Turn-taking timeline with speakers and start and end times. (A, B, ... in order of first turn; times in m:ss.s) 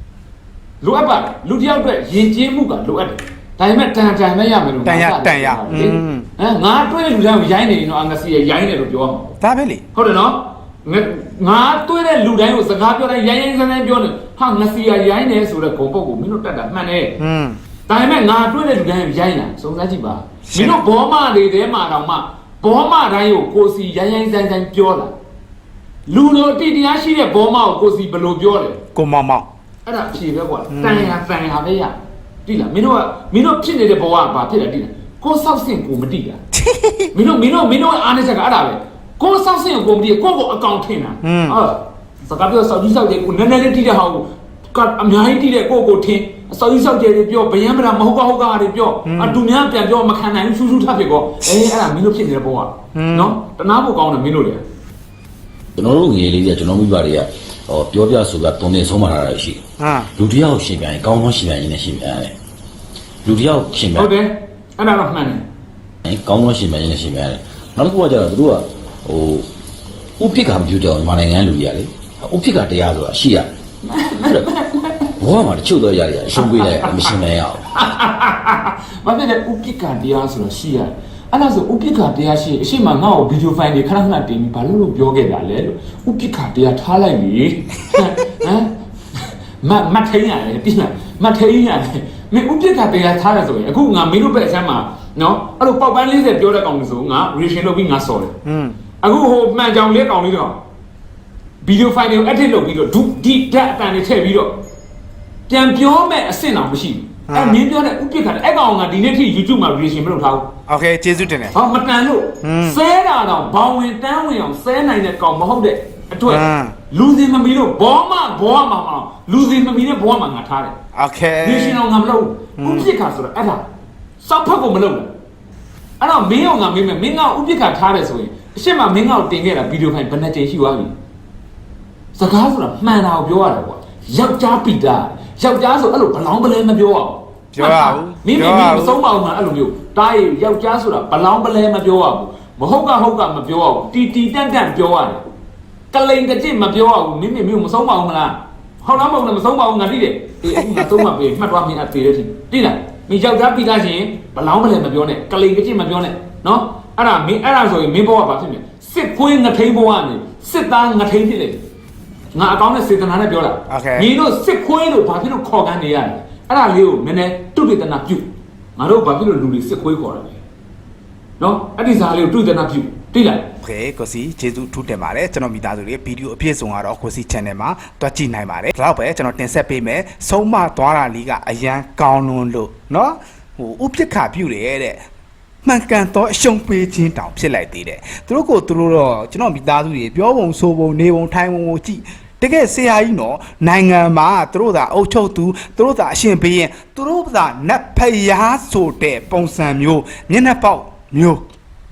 0:00.8-0:09.3 A
0:04.8-0:06.3 B
0:09.4-0:09.8 B
0:09.9-0:17.2 A
0:17.2-0:17.6 B
0:17.9-0:25.1 A
0:20.5-0:20.8 B
0:26.1-0:28.8 A
0:28.9-0:29.5 B
0:29.8-0:36.4 A
0:30.7-0:31.1 B
0:36.5-0:37.1 B
0:37.1-0:54.6 A
0:41.2-0:41.6 B
0:49.0-0:49.4 B
0:52.9-0:53.4 B
0:55.7-0:59.6 C
0:59.8-1:00.1 B
1:00.2-1:02.3 C
1:03.2-1:04.1 C
1:03.9-1:05.4 A
1:06.0-1:09.4 C
1:10.2-1:13.5 C
1:13.8-1:15.1 A
1:15.2-1:17.7 C
1:16.4-1:17.1 A
1:17.7-1:38.3 A
1:38.4-1:38.8 B
1:39.0-1:40.6 A
1:41.6-1:44.6 A
1:45.5-1:50.5 A
1:47.3-1:47.6 B
1:50.7-1:51.6 B
1:51.5-2:00.7 A
1:52.4-1:52.8 B
1:56.2-1:56.8 B
2:00.9-2:01.8 B
2:01.4-2:03.7 A
2:02.6-2:02.9 B
2:04.2-2:05.1 A
2:06.0-2:10.9 A
2:12.1-2:25.2 A
2:17.5-2:19.0 B
2:25.9-2:41.6 A
2:42.3-2:50.4 A
2:43.7-2:44.1 B
2:51.4-2:53.5 A
2:53.6-3:05.0 B
3:05.6-3:21.4 B